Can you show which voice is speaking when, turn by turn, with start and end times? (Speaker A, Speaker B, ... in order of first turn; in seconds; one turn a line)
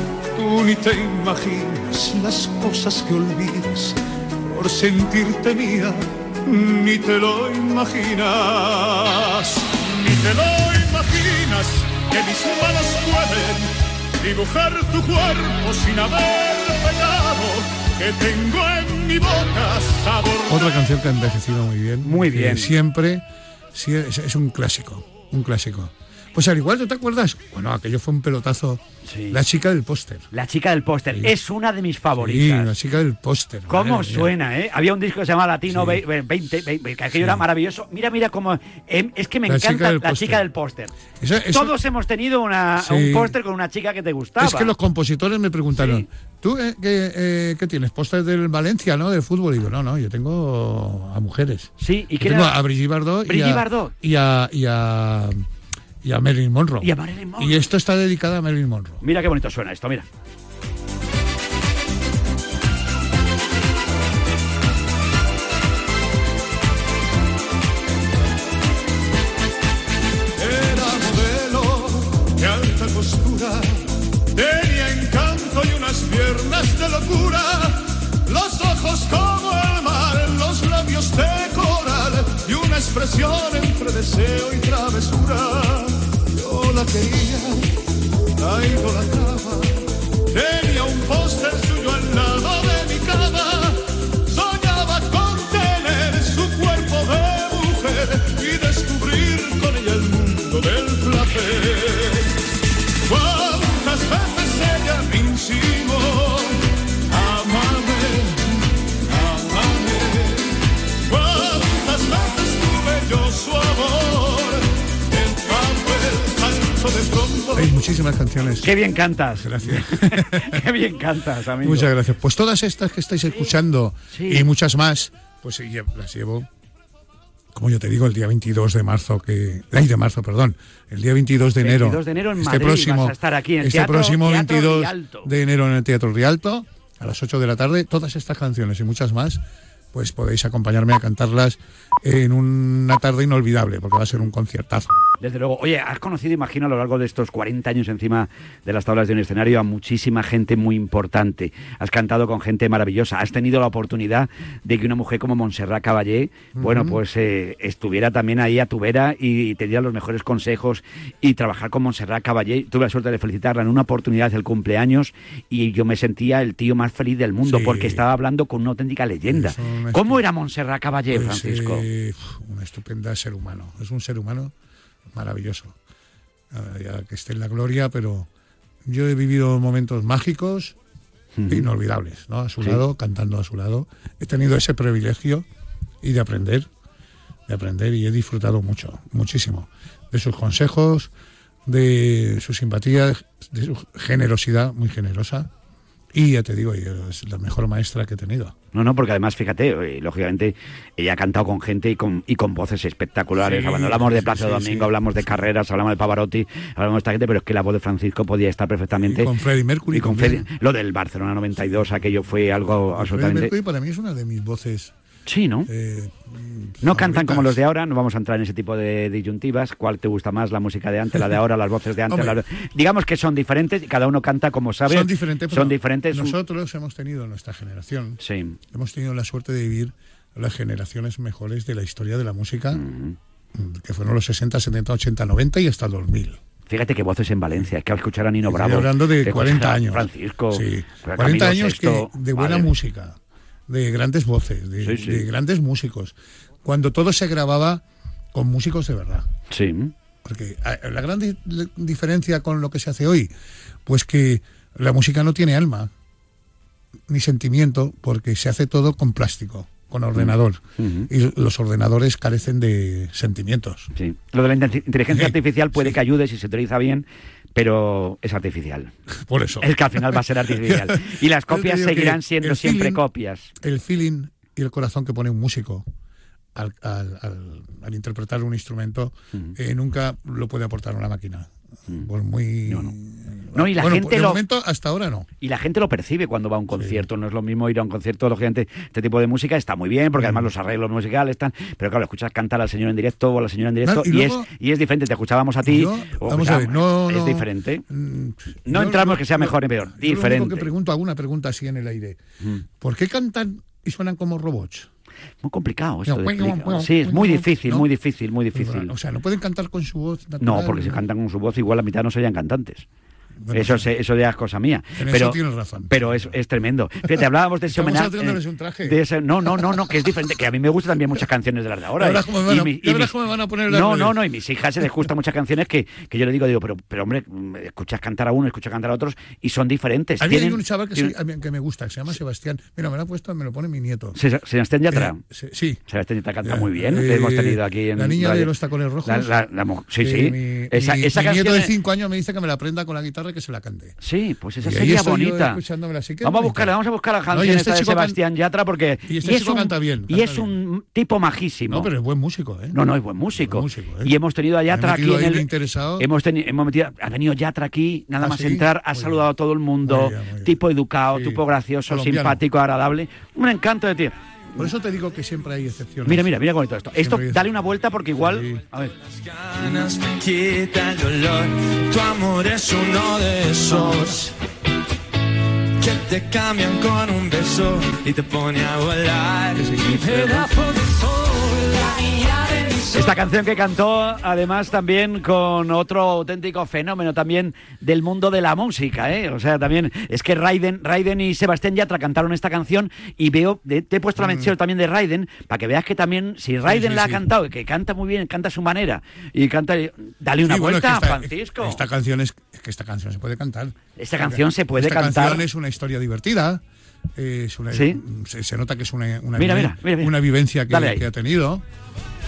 Speaker A: 0.3-20.7
Speaker B: 20.5-30.3
Speaker C: 22.0-22.8
Speaker C: 29.0-29.4
Speaker C: 30.3-32.8
Speaker B: 32.2-34.3
Speaker C: 33.7-44.7
Speaker B: 35.7-36.0
Speaker B: 37.1-37.4
Speaker B: 39.5-40.5
Speaker B: 41.2-41.7
Speaker B: 42.8-43.4
Speaker B: 44.4-55.4
Speaker C: 45.8-46.1
Speaker C: 51.8-52.6
Speaker C: 53.3-53.9
Speaker B: 56.0-59.0
Speaker C: 56.8-57.6
Speaker C: 59.0-60.1
Speaker A: 70.4-87.7
Speaker A: 88.4-89.7
Speaker A: 90.3-102.3
Speaker A: 103.1-117.7
Speaker B: 117.5-118.7
Speaker C: 118.6-121.9
Speaker B: 119.4-120.6
Speaker B: 121.6-126.5
Speaker C: 124.1-124.5
Speaker B: 127.5-139.4
Speaker C: 131.6-135.3
Speaker B: 139.9-145.0
Speaker C: 145.2-171.9
Speaker B: 156.6-157.0
Speaker B: 167.4-168.0
Speaker B: 169.3-170.2
Speaker B: 171.1-174.5
Speaker B: 175.1-175.8
Speaker B: 176.5-178.3
Speaker B: 178.8-180.8
Speaker C: 181.4-181.7
Speaker B: 181.5-185.5
Speaker B: 186.0-186.7
Speaker B: 187.5-191.1
Speaker B: 191.7-195.5
Speaker B: 196.1-198.5
Speaker C: 198.7-209.3
Speaker B: 203.3-205.5
Speaker B: 208.9-210.5
Speaker C: 209.9-213.5
Speaker B: 212.9-214.9
Speaker C: 215.3-215.7
Speaker B: 215.7-217.6
Speaker C: 216.8-226.4
Speaker B: 222.1-222.4
Speaker B: 224.9-232.8
Speaker C: 228.2-228.6
Speaker C: 232.7-233.2
Speaker B: 233.5-236.4
Speaker C: 236.7-242.7
Speaker B: 238.5-247.8
Speaker C: 244.8-245.3
Speaker B: 248.3-249.3
Speaker C: 249.5-249.9
Speaker B: 250.2-253.3
Speaker B: 253.9-255.9
Speaker B: 257.1-263.9
Speaker C: 260.1-261.1
Speaker C: 263.9-268.9
Speaker B: 265.1-266.0
Speaker B: 269.2-273.0
Speaker C: 269.6-273.5
Speaker B: 273.6-275.9
Speaker B: 276.6-285.3
Speaker C: 282.7-282.9
Speaker C: 283.5-284.4
Speaker C: 285.4-297.8
Speaker B: 286.7-287.1
Speaker B: 290.2-290.5
Speaker B: 293.8-294.5
Speaker B: 295.6-302.2
Speaker C: 298.7-300.7
Speaker B: 302.8-304.9
Speaker C: 305.4-308.9
Speaker B: 306.1-307.9
Speaker B: 308.5-311.0
Speaker C: 310.4-312.9
Speaker B: 313.4-313.9
Speaker C: 313.5-323.1
Speaker B: 315.0-316.3
Speaker B: 317.7-320.1
Speaker B: 322.0-324.2
Speaker C: 323.7-331.1
Speaker B: 330.2-334.2
Speaker C: 334.1-335.2
Speaker B: 334.9-335.8
Speaker C: 335.9-338.5
Speaker B: 336.4-339.3
Speaker C: 339.1-341.7
Speaker B: 340.0-344.0
Speaker C: 344.0-345.6
Speaker B: 344.6-346.7
Speaker C: 346.2-351.9
Speaker B: 347.3-348.2
Speaker B: 349.1-350.5
Speaker B: 351.7-352.8
Speaker C: 352.7-355.5
Speaker B: 353.4-354.1
Speaker B: 354.7-356.1
Speaker C: 356.0-364.6
Speaker B: 358.2-359.3
Speaker B: 359.8-360.6
Speaker B: 361.1-362.4
Speaker B: 364.6-366.3
Speaker C: 366.1-368.9
Speaker B: 367.0-367.6
Speaker B: 368.1-368.6
Speaker D: 369.1-374.3
Speaker D: 375.8-383.1
Speaker B: 379.6-380.5
Speaker C: 382.9-401.8
Speaker B: 394.2-394.6
Speaker B: 396.7-397.2
Speaker B: 400.4-406.6
Speaker C: 404.0-405.4
Speaker B: 407.2-411.6
Speaker C: 407.7-408.0
Speaker C: 409.4-410.1
Speaker C: 410.7-411.1